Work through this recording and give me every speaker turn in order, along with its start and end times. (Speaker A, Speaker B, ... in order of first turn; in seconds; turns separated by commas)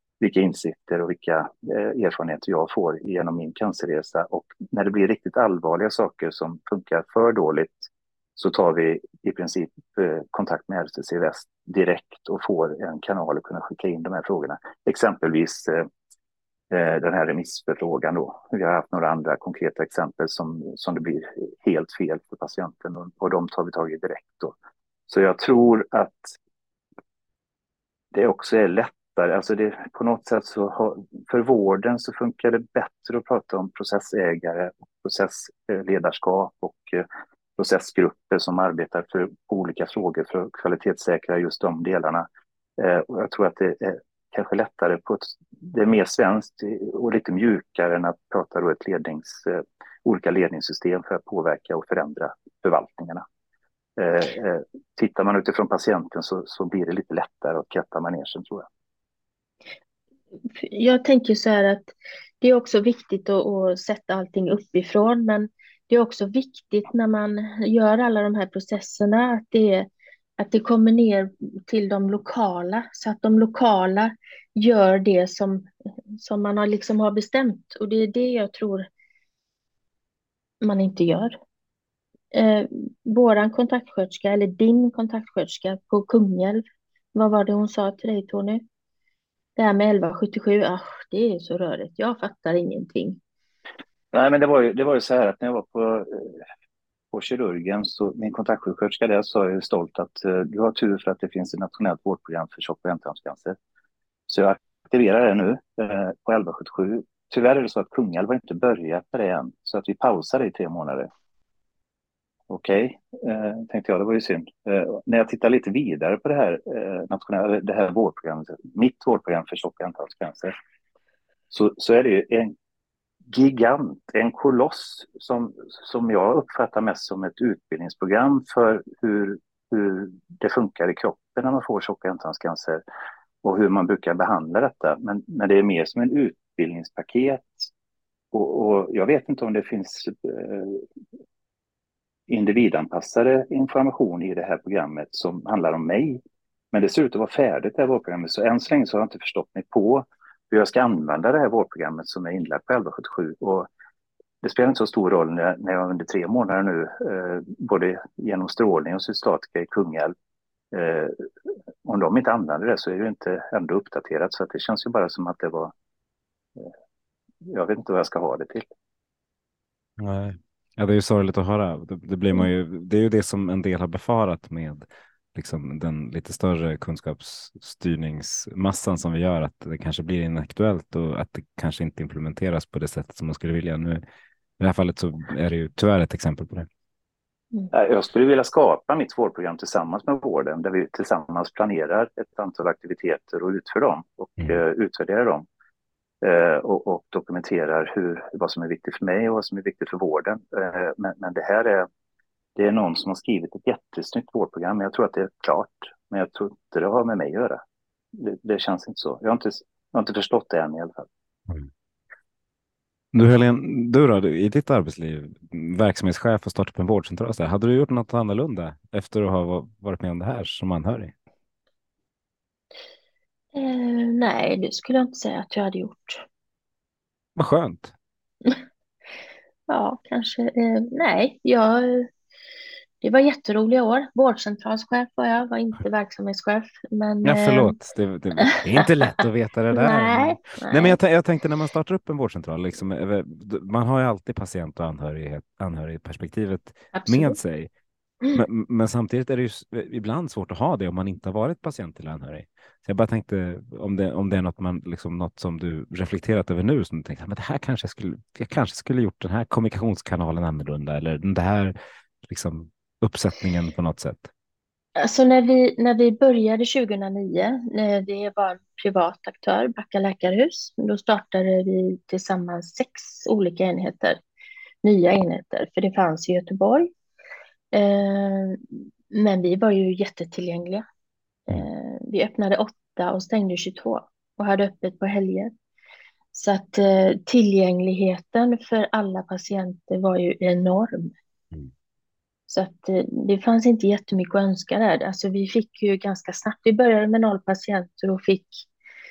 Speaker A: 0.2-15.9, Speaker A: 16.7-24.5, Speaker A: 25.1-26.4, Speaker A: 28.1-37.1, Speaker A: 37.6-42.3, Speaker A: 42.8-53.2, Speaker A: 54.0-58.7, Speaker B: 60.5-78.9, Speaker B: 80.6-81.4, Speaker B: 82.3-88.6, Speaker B: 89.6-93.2, Speaker A: 94.1-96.4, Speaker A: 97.1-103.6, Speaker A: 104.3-111.1, Speaker A: 112.5-120.5, Speaker A: 121.5-122.5, Speaker A: 123.3-132.8, Speaker A: 133.4-137.7, Speaker A: 138.3-140.8, Speaker A: 142.3-146.2, Speaker A: 146.7-153.7, Speaker A: 154.4-160.1, Speaker A: 160.7-161.3, Speaker A: 161.8-165.7, Speaker A: 167.4-168.7, Speaker C: 170.0-184.0, Speaker C: 184.6-186.7, Speaker A: 187.7-195.5, Speaker A: 196.2-201.9, Speaker A: 202.6-207.6, Speaker A: 208.1-211.1, Speaker C: 213.1-221.1, Speaker B: 223.5-226.2, Speaker C: 227.4-227.9, Speaker B: 229.7-232.1, Speaker B: 233.0-237.8, Speaker C: 237.2-247.7, Speaker B: 239.7-241.0, Speaker B: 246.9-247.4, Speaker C: 248.3-264.3, Speaker B: 265.0-274.2, Speaker B: 274.8-276.9, Speaker B: 277.7-280.9, Speaker B: 281.5-285.5, Speaker B: 286.3-291.1, Speaker B: 292.5-298.7